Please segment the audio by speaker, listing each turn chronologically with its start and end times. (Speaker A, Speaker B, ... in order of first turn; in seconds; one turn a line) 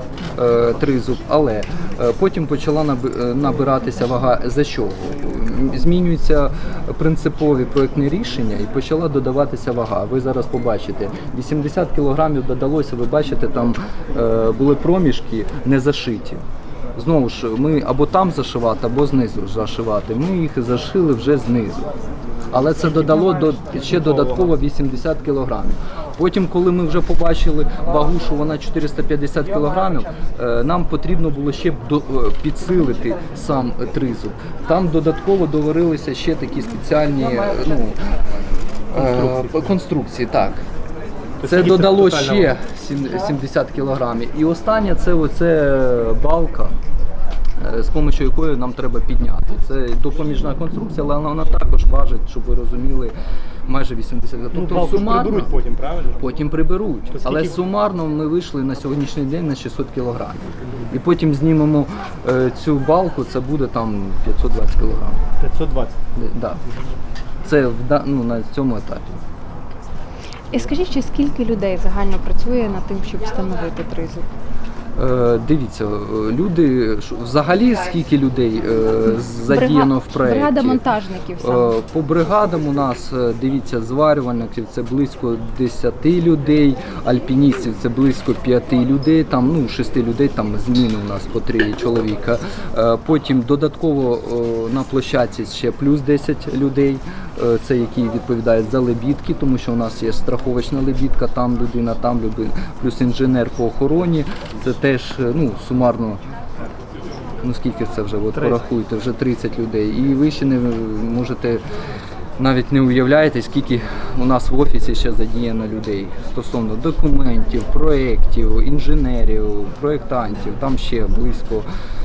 Speaker A: 0.3-16.4
Speaker A: 17.0-21.9
Speaker A: 22.5-38.0
Speaker A: 38.9-40.6
Speaker B: 38.9-39.7
Speaker B: 41.4-42.5
Speaker A: 41.4-46.8
Speaker A: 47.6-53.1
Speaker A: 53.7-55.5
Speaker B: 54.5-56.2
Speaker A: 56.2-65.2
Speaker B: 57.1-57.6
Speaker B: 65.4-66.0
Speaker A: 66.2-66.6
Speaker A: 67.4-69.2
Speaker C: 70.5-74.3
Speaker A: 75.0-80.8
Speaker C: 79.5-81.8
Speaker A: 81.4-106.2
Speaker A: 107.4-111.6
Speaker A: 112.4-121.7